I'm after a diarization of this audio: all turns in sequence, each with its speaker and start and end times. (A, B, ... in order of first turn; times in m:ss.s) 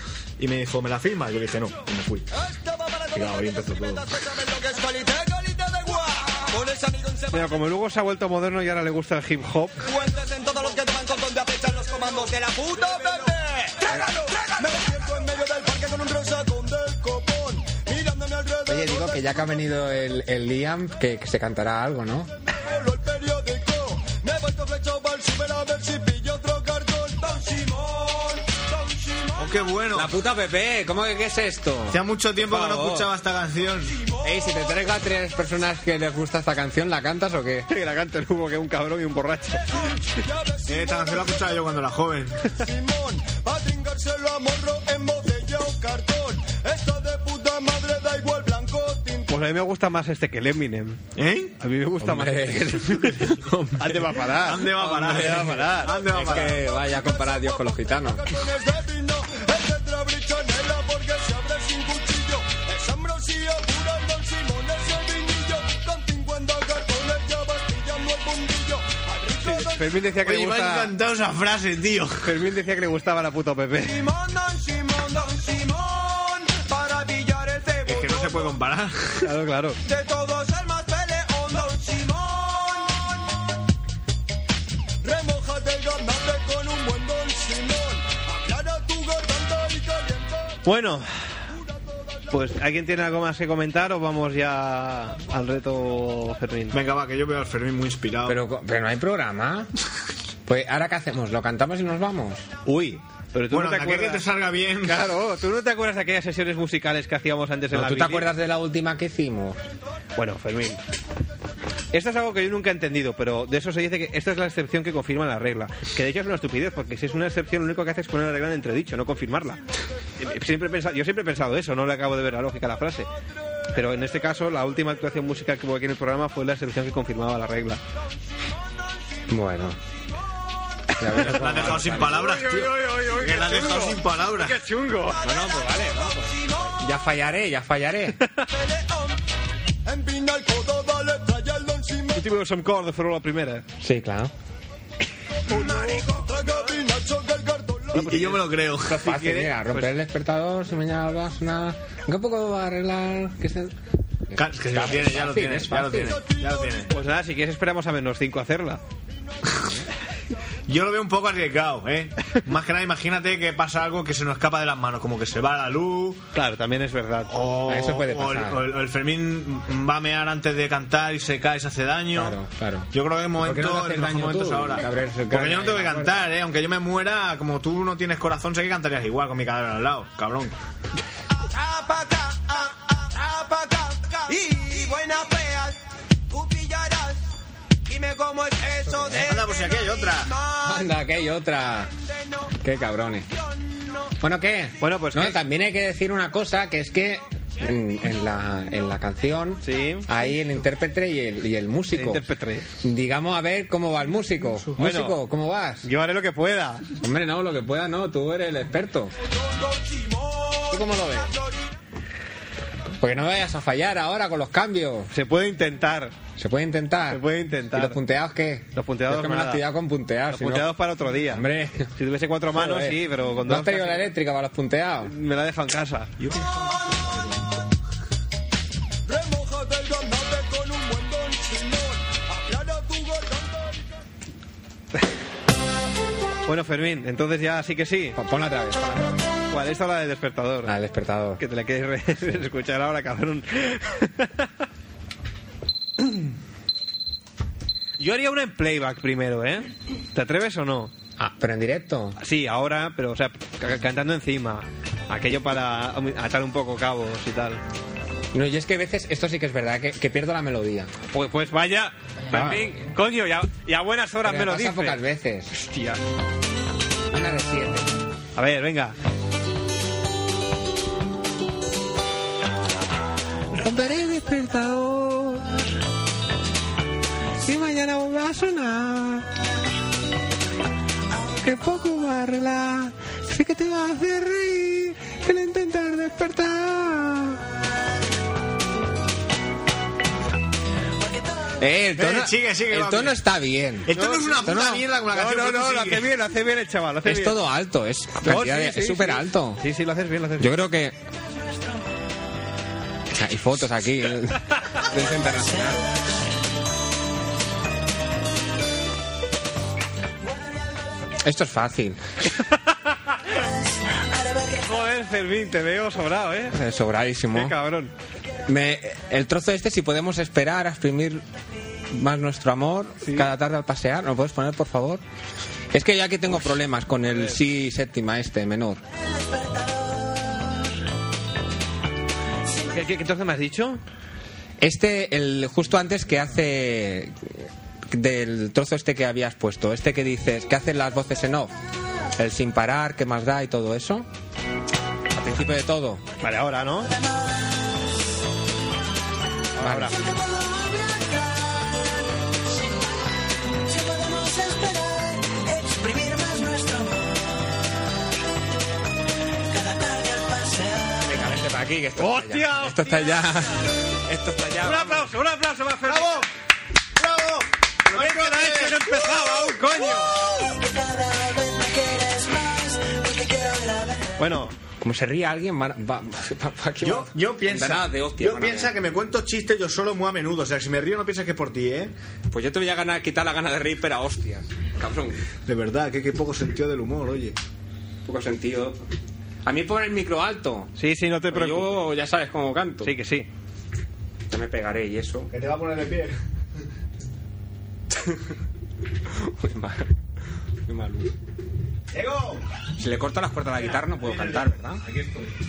0:00.4-0:02.3 A
0:02.5-0:07.5 B
0:03.1-0:04.2 A
0:07.3-0:09.9 C
0:09.8-0:19.3 B
0:18.7-0:22.3 D
0:22.5-0:29.6 B
0:29.4-0:30.2 A
0:29.9-0:33.1 D
0:31.9-0:34.0 A
0:34.2-0:37.7 D
0:37.7-0:39.9 C
0:39.9-0:41.5 B
0:40.7-0:42.5 A
0:42.5-0:49.3 B
0:49.3-0:51.0 C
0:51.2-0:51.5 A
0:51.6-0:56.0 C
0:52.0-0:53.4 D
0:53.5-0:56.6 A
0:55.9-0:58.3 D
0:56.3-1:10.1 B
1:09.4-1:10.9 C
1:10.2-1:12.3 A
1:12.2-1:14.1 C
1:13.8-1:18.6 B
1:17.8-1:19.3 A
1:19.2-1:19.8 C
1:19.8-1:23.2 B
1:25.0-1:30.6 B
1:30.6-1:31.3 C
1:32.3-1:36.8 C
1:36.7-1:38.4 A
1:38.3-1:39.7 D
1:40.5-1:42.5 D
1:42.7-1:44.3 C
1:43.5-1:45.1 A
1:44.8-1:48.3 C
1:47.7-1:49.6 D
1:50.2-1:50.8 C
1:51.9-1:59.6 C
2:00.2-2:03.1 C
2:03.7-2:07.8 C
2:09.3-2:09.8 D
2:11.0-2:12.4 D
2:11.1-2:15.2 C
2:11.2-2:14.6 A
2:15.2-2:16.7 B
2:15.2-2:18.2 D
2:18.6-2:19.1 B
2:19.8-2:22.2 B
2:22.1-2:23.6 C
2:23.8-2:24.3 D
2:25.5-2:28.1 B
2:25.5-2:26.2 C
2:27.9-2:29.9 C
2:28.0-2:29.0 A
2:28.8-2:33.8 D
2:34.3-2:36.2 D
2:34.4-2:36.9 A
2:36.4-2:36.7 B
2:36.9-2:38.8 C
2:40.7-2:46.2 A
2:46.3-2:47.3 C
2:47.3-2:52.4 A
2:47.7-2:48.7 D
2:52.1-2:56.2 D
2:52.9-3:00.6 A
3:01.4-3:07.2 B
3:07.9-3:10.8 B
3:09.1-3:10.3 A
3:10.6-3:11.9 D
3:12.6-3:13.3 D
3:14.2-3:22.2 D
3:14.8-3:15.4 C
3:19.6-3:20.1 C
3:21.9-3:22.7 C
3:22.8-3:25.8 D
3:24.8-3:25.2 C
3:25.8-3:26.9 C
3:27.0-3:29.1 D
3:29.6-3:30.8 B
3:30.7-3:31.3 D
3:33.0-3:35.1 D
3:35.1-3:36.2 C
3:36.4-3:41.9 D
3:37.1-3:38.0 C
3:38.8-3:39.7 C
3:40.3-3:41.4 C
3:42.0-3:44.1 C
3:42.5-3:45.1 D
3:45.0-3:46.1 C
3:49.1-3:53.9 B
3:56.5-3:58.2 C
3:58.2-3:59.2 D
3:59.5-4:00.8 C
4:00.6-4:01.4 D
4:01.4-4:04.5 C
4:08.0-4:10.9 C
4:11.2-4:12.2 D
4:12.2-4:17.6 C
4:18.3-4:20.9 D
4:21.1-4:26.0 C
4:22.3-4:22.7 D
4:24.2-4:25.5 D
4:27.1-4:27.9 D
4:28.4-4:29.0 C
4:33.6-4:35.4 D
4:37.4-4:39.2 D
4:41.4-4:47.4 D
4:51.0-4:51.6 E
4:51.6-4:54.8 D
4:52.0-4:53.2 A
4:53.9-4:56.1 A
4:53.9-4:57.4 C
4:57.0-4:59.6 D
4:58.2-5:00.6 C
5:00.4-5:01.0 D
5:03.1-5:05.9 D
5:05.2-5:06.1 E
5:11.2-5:12.0 D
5:13.4-5:14.8 E
5:14.6-5:16.6 C
5:16.5-5:17.6 D
5:17.3-5:17.9 C
5:18.5-5:21.2 D
5:21.9-5:25.0 D
5:23.0-5:23.3 C
5:25.7-5:28.8 D
5:27.1-5:27.4 C
5:29.0-5:30.7 E
5:32.7-5:33.8 C
5:34.6-5:41.5 D
5:42.2-5:44.1 D
5:45.1-5:46.0 D
5:46.2-5:46.9 C
5:46.8-5:47.9 E
5:49.6-5:50.0 C
5:49.6-5:50.0 D
5:49.9-5:52.8 E
5:53.6-5:57.5 E
5:59.5-6:01.2 E
6:01.0-6:05.1 D
6:02.0-6:03.1 C
6:04.6-6:06.3 C
6:05.9-6:06.3 A
6:07.0-6:08.8 A
6:07.9-6:10.1 C
6:09.9-6:14.1 E
6:14.2-6:14.5 C
6:14.8-6:18.8 D
6:16.8-6:21.9 A
6:22.3-6:25.2 D
6:25.5-6:27.4 A
6:28.0-6:28.8 D
6:29.4-6:30.7 D
6:30.8-6:31.9 C
6:31.3-6:33.0 D
6:32.8-6:33.3 C
6:34.3-6:35.3 D
6:35.3-6:36.2 A
6:39.1-6:39.9 D
6:40.7-6:41.1 D
6:41.9-6:42.5 A
6:42.8-6:44.8 D
6:43.6-6:44.6 A
6:44.8-6:45.3 C